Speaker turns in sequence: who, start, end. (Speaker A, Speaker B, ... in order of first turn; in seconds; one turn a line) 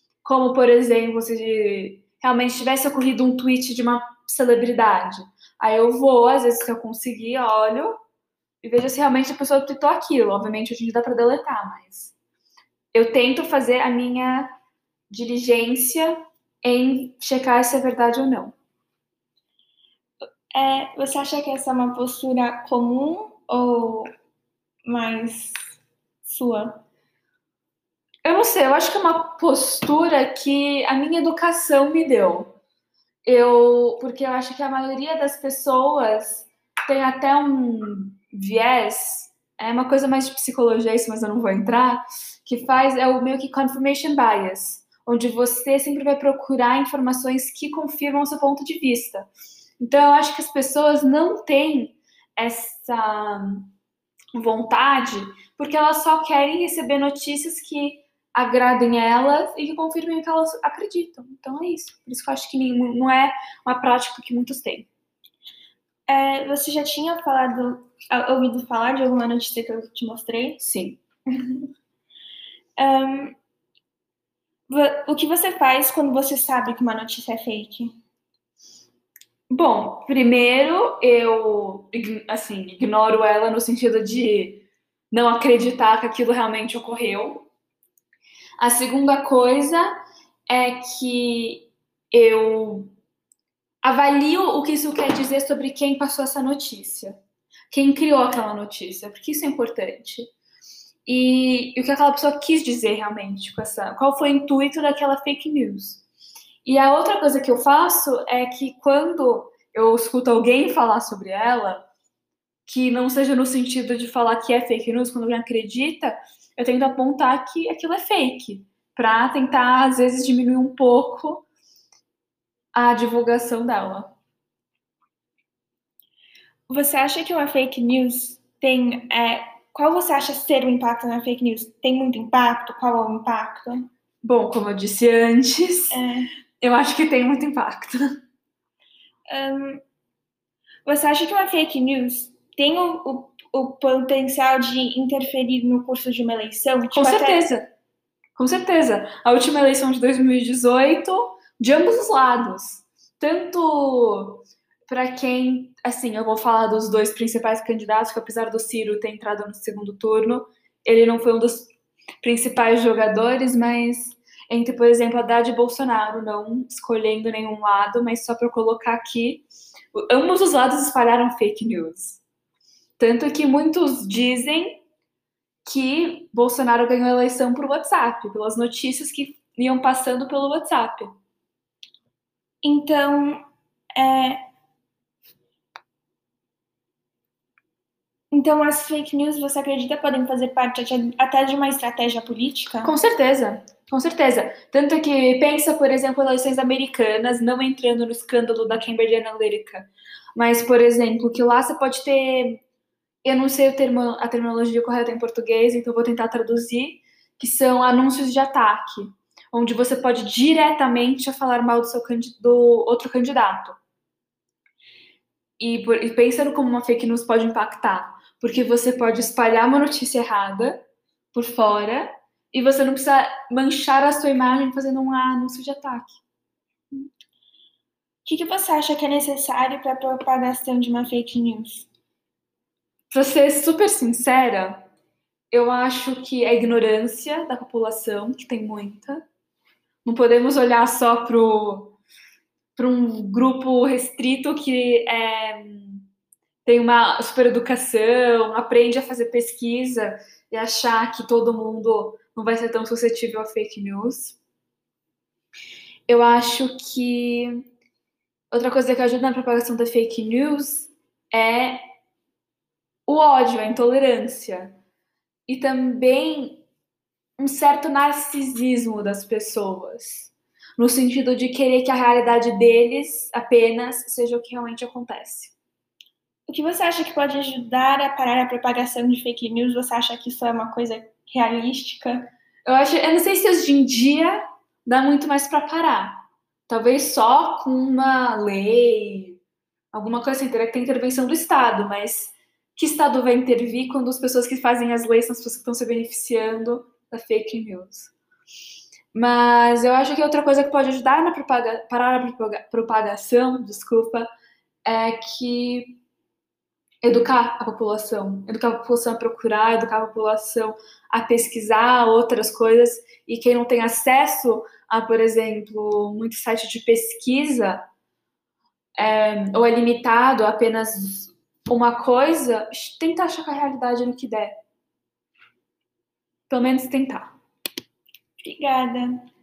Speaker A: 0.2-8.0
Speaker A: 8.6-12.1
Speaker A: 12.9-14.5
Speaker A: 15.1-18.5
Speaker B: 20.5-24.1
Speaker B: 24.8-25.6
Speaker B: 26.2-26.8
Speaker A: 28.2-32.5
Speaker A: 33.2-53.7
Speaker A: 54.3-64.9
Speaker B: 66.1-70.6
Speaker A: 70.6-71.0
Speaker B: 71.3-71.7
Speaker B: 72.8-73.3
Speaker B: 74.7-77.9
Speaker A: 79.5-87.5
Speaker A: 88.6-89.9
Speaker A: 90.5-92.9
Speaker A: 93.8-97.2
Speaker A: 97.7-100.3
Speaker A: 101.0-106.0
Speaker A: 106.6-111.9
Speaker A: 112.7-121.5
Speaker A: 122.7-124.1
Speaker B: 126.7-133.9
Speaker A: 134.2-136.0
Speaker B: 135.9-136.3
Speaker A: 136.6-138.0
Speaker B: 139.3-139.8
Speaker B: 140.8-147.4
Speaker A: 146.9-147.7
Speaker A: 148.3-172.2
Speaker A: 173.0-174.8
Speaker A: 175.6-181.1
Speaker B: 182.6-183.4
Speaker B: 183.9-184.4
Speaker B: 188.3-192.9
Speaker A: 192.8-202.6
Speaker A: 203.2-213.8
Speaker A: 215.6-220.8
Speaker A: 221.3-226.2
Speaker B: 228.2-231.9
Speaker A: 233.1-234.8
Speaker A: 235.5-239.2
Speaker A: 240.0-242.0
Speaker A: 242.8-246.1
Speaker A: 246.7-254.4
Speaker A: 256.1-257.6
Speaker A: 258.5-261.8
Speaker A: 263.1-264.8
Speaker A: 265.5-266.6
Speaker A: 267.4-275.5
Speaker B: 276.5-282.3
Speaker A: 282.6-289.4
Speaker A: 289.9-298.1
Speaker A: 299.1-304.3
Speaker A: 304.8-306.0
Speaker A: 307.0-317.9
Speaker A: 318.9-324.5
Speaker A: 326.5-327.3
Speaker B: 328.4-329.2